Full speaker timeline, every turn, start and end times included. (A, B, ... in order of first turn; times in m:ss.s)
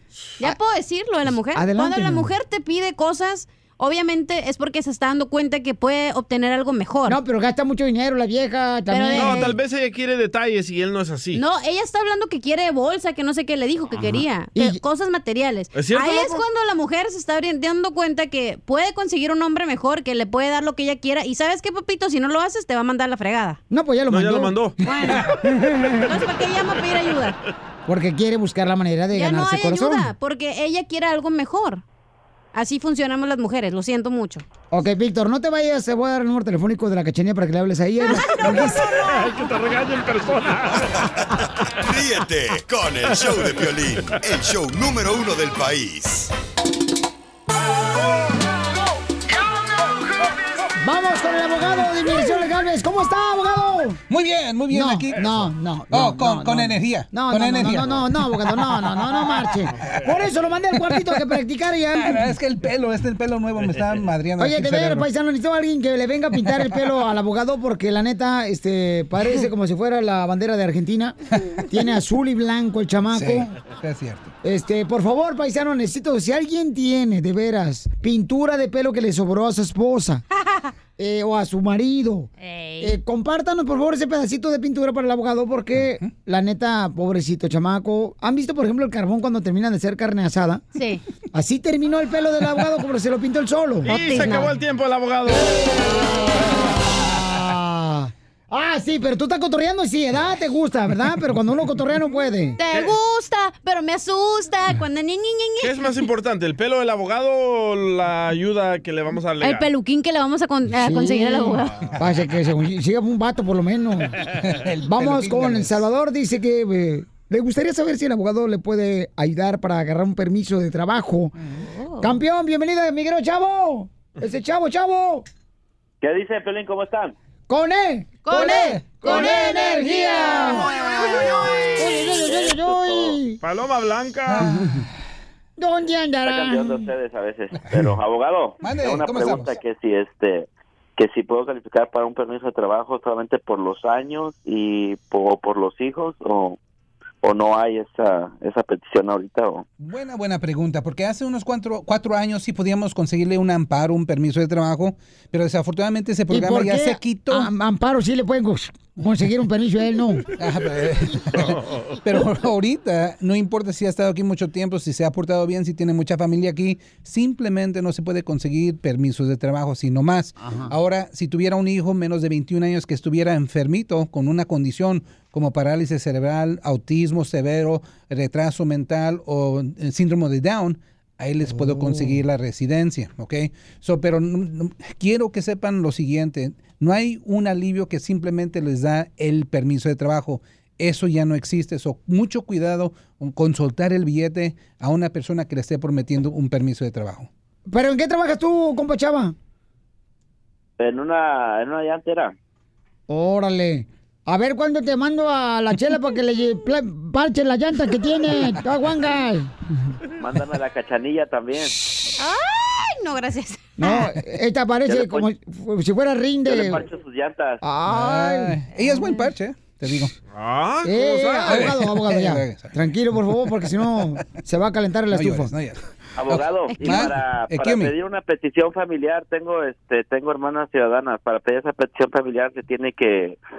0:00.4-0:07.2 A
0:01.5-0:02.3 B
0:07.0-0:09.5 B
0:08.9-0:09.5 A
0:09.1-0:11.4 C
0:11.3-0:23.6 A
0:14.1-0:14.8 B
0:15.7-0:16.4 C
0:23.7-0:26.0 B
0:24.1-0:24.8 C
0:24.8-0:25.2 A
0:26.0-0:27.4 A
0:27.8-0:30.1 B
0:29.1-0:31.8 A
0:32.5-0:34.4 A
0:34.7-0:39.1 B
0:38.6-0:41.1 C
0:41.8-0:46.3 D
0:50.8-0:54.0 B
0:54.1-0:58.9 E
0:54.7-1:02.3 B
0:59.8-1:00.0 C
1:00.9-1:01.2 E
1:02.0-1:05.1 E
1:04.4-1:13.5 B
1:13.1-1:14.3 E
1:14.4-1:20.2 B
1:21.0-1:30.6 B
1:22.4-1:23.0 A
1:25.8-1:26.0 E
1:30.7-1:31.0 A
1:31.3-1:33.9 B
1:33.8-1:35.8 C
1:33.9-1:34.5 A
1:37.0-1:42.6 B
1:42.6-1:45.9 A
1:45.6-1:49.7 C
1:49.4-1:51.8 A
1:50.7-1:54.2 B
1:54.3-1:55.8 E
1:54.8-2:01.3 B
2:01.6-2:02.1 A
2:02.0-2:05.2 B
2:06.0-2:07.1 F
2:07.5-2:10.8 B
2:08.2-2:12.0 A
2:11.7-2:13.4 B
2:12.2-2:13.2 F
2:13.4-2:14.4 C
2:14.4-2:14.8 E
2:14.4-2:14.8 B
2:15.6-2:16.9 B
2:16.2-2:26.6 F
2:18.6-2:19.5 E
2:27.2-2:29.6 F
2:29.8-2:37.5 E
2:36.3-2:40.3 B
2:40.4-3:17.3 E
2:41.4-2:41.9 C
2:50.4-2:50.7 B
3:01.6-3:02.0 B
3:17.7-3:19.3 B
3:20.8-3:22.3 F
3:23.1-3:29.5 B
3:30.2-3:31.7 F
3:32.2-3:34.0 A
3:33.8-3:36.8 B
3:34.8-3:35.2 F
3:36.4-3:37.6 F
3:37.6-3:38.6 B
3:37.8-3:40.1 E
3:38.8-3:39.2 A
3:40.3-3:41.7 C
3:40.8-3:45.5 B
3:41.5-3:42.7 E
3:45.1-3:45.8 E
3:46.2-3:53.4 F
3:46.3-3:47.9 E
3:46.7-3:47.1 A